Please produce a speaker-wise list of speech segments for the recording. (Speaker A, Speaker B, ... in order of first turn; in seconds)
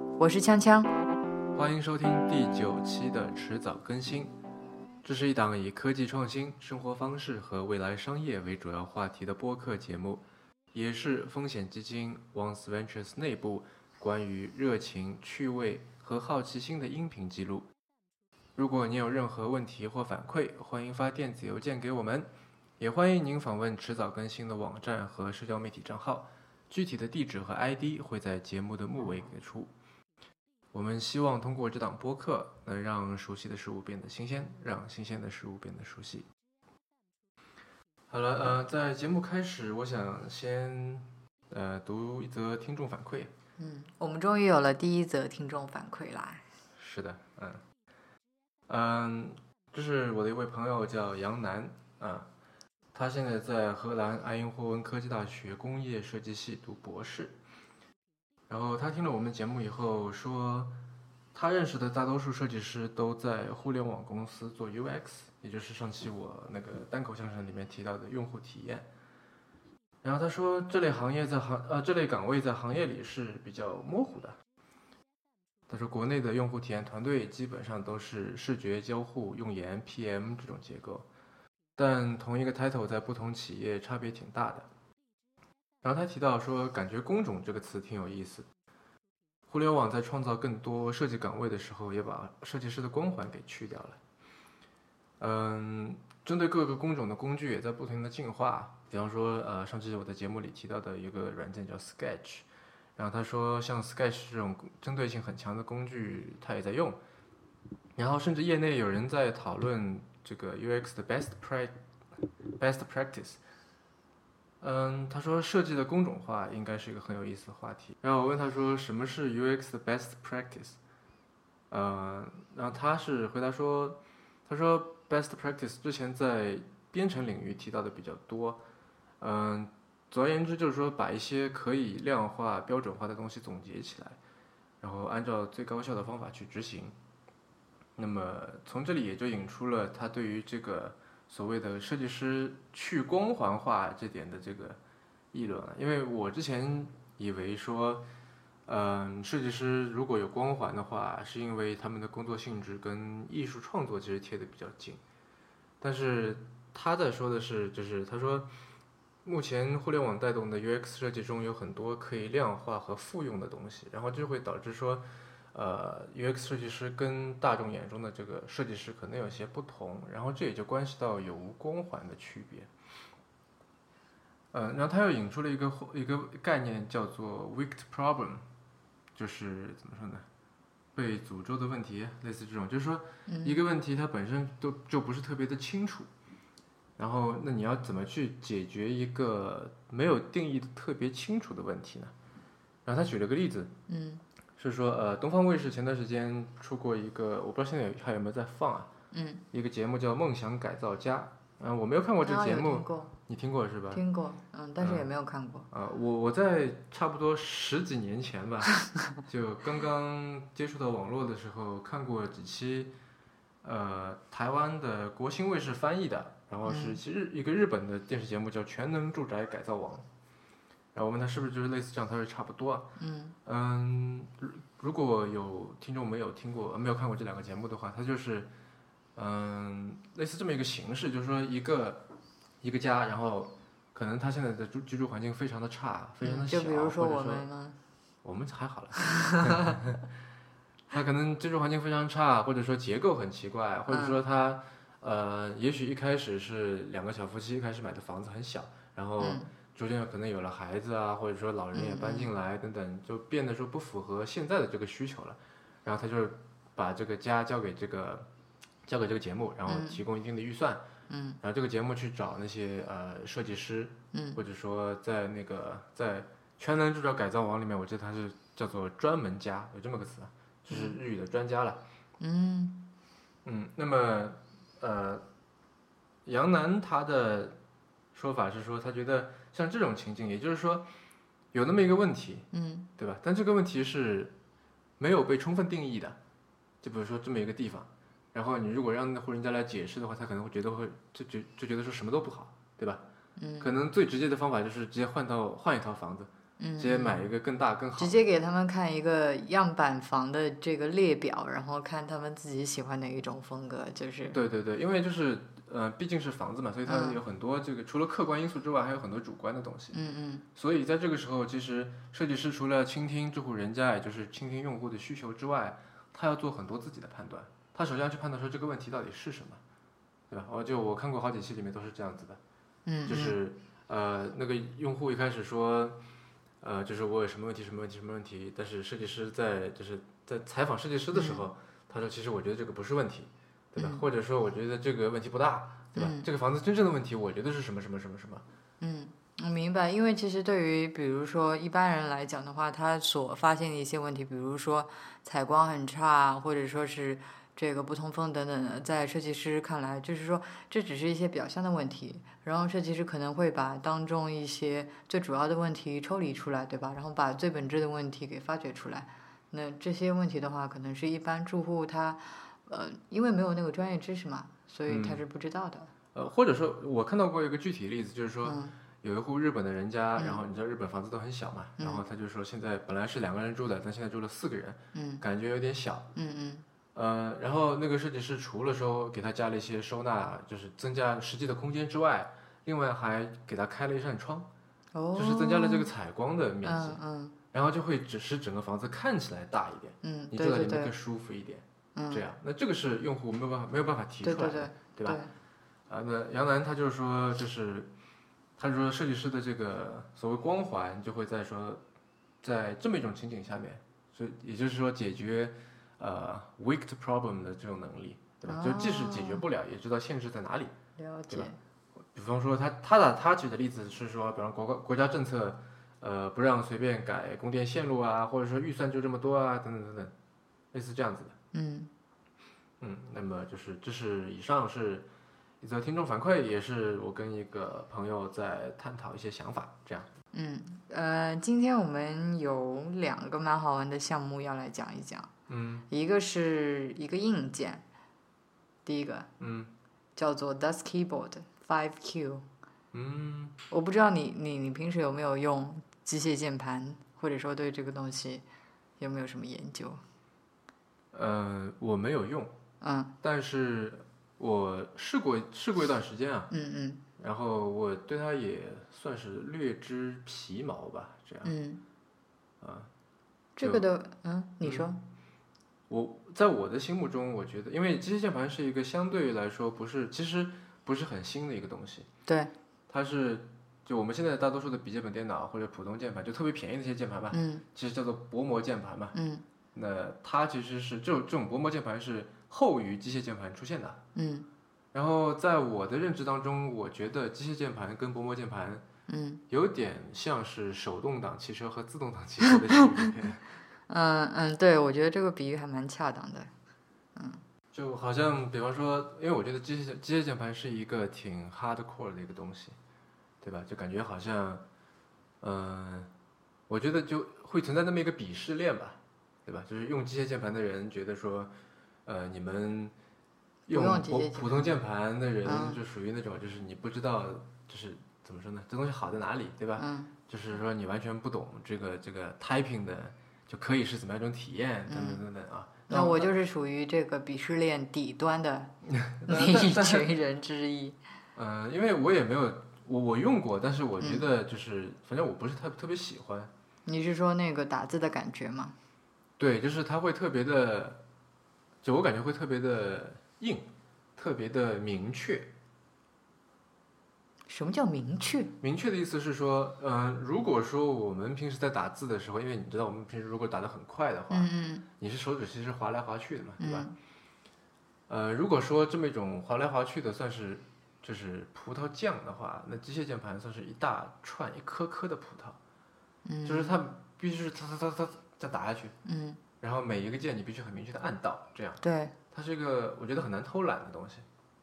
Speaker A: 0.2-0.9, 43.6-46.4, 183.3-183.6, 193.9-194.2, 199.1-199.4, 202.2-203.1, 203.9-205.7, 216.7-217.0, 223.0-223.3, 236.2-237.8, 239.0-239.7, 243.9-244.2, 249.2-249.5, 251.7-252.3, 259.7-260.0, 261.1-261.4, 264.1-264.4, 270.7-271.0, 272.2-272.9, 282.5-282.9, 293.4-293.7, 296.6-297.2, 298.0-304.4, 306.9-307.2, 309.9-310.4, 322.9-323.4, 331.1-331.4, 333.8-334.0, 335.9-336.3, 338.8-365.9, 368.4-368.7, 370.2-370.4, 374.9-375.2, 376.1-376.6, 384.9-385.9, 386.6-387.3, 390.0-390.9, 391.9-392.2, 394.2-395.3, 408.4-409.4, 411.0-411.6, 421.5-421.9, 430.3-435.3, 435.9-437.8, 438.9-439.3, 440.1-442.4, 443.7-448.4, 449.0-450.0, 452.8-453.1, 456.5-457.0, 461.4-461.8, 463.6-465.0, 472.3-472.5, 477.3-477.6, 479.1-479.4, 484.1-484.5, 489.1-489.4, 492.4-493.1, 493.9-496.5, 497.1-497.4, 513.7-514.7, 515.4-515.8, 519.8-520.1, 524.9-525.2, 525.9-528.7, 529.3-531.0, 534.0-534.2, 536.9-538.7, 547.5-548.5, 554.3-554.9, 556.6-556.9, 566.2-566.8, 569.0-569.4, 571.8-572.1
Speaker B: 1.5-4.3, 5.0-17.7, 18.6-22.3, 22.8-29.7, 30.7-36.2, 38.1-43.3, 46.8-47.6, 48.7-52.3, 52.9-57.4, 58.5-60.7, 61.3-68.9, 70.0-74.3, 75.7-81.1, 81.8-84.7, 85.8-88.5, 89.5-94.0, 95.2-107.0, 108.0-111.7, 112.6-113.4, 114.6-120.8, 121.7-128.6, 129.2-134.2, 134.8-136.9, 138.0-144.8, 145.3-148.1, 148.7-155.0, 155.8-158.5, 159.2-172.7, 174.5-178.4, 179.1-180.2, 180.9-186.1, 187.0-192.1, 192.8-193.7, 194.6-198.9, 199.5-204.0, 204.8-205.1, 205.7-208.7, 209.2-212.9, 213.6-220.1, 220.9-222.9, 223.4-228.5, 229.1-232.0, 232.6-237.4, 238.2-240.1, 240.9-258.2, 258.8-260.8, 261.4-271.8, 273.4-275.2, 276.2-277.6, 278.1-280.9, 281.5-282.5, 283.0-284.3, 285.0-286.2, 286.8-293.0, 293.6-298.2, 304.3-310.0, 310.6-319.6, 320.3-322.4, 323.0-326.0, 326.6-338.4, 364.9-365.2, 366.1-376.1, 376.9-384.5, 385.1-387.0, 387.5-395.2, 395.9-397.9, 398.6-401.8, 402.4-410.7, 412.1-420.1, 420.7-421.3, 422.8-425.1, 425.6-430.1, 435.5-435.9, 439.4-439.7, 442.9-443.6, 451.1-452.5, 453.2-456.5, 457.2-461.5, 462.6-462.9, 464.6-464.9, 465.9-472.1, 472.9-479.1, 479.7-484.0, 484.9-488.8, 489.5-493.4, 497.7-502.8, 503.4-504.6, 505.4-506.1, 506.7-511.5, 512.0-512.9, 513.7-526.3, 528.8-530.1, 531.3-536.5, 539.4-541.0, 541.8-545.5, 548.6-556.9, 558.1-565.6, 566.4-568.9, 569.6-571.8, 572.3-574.2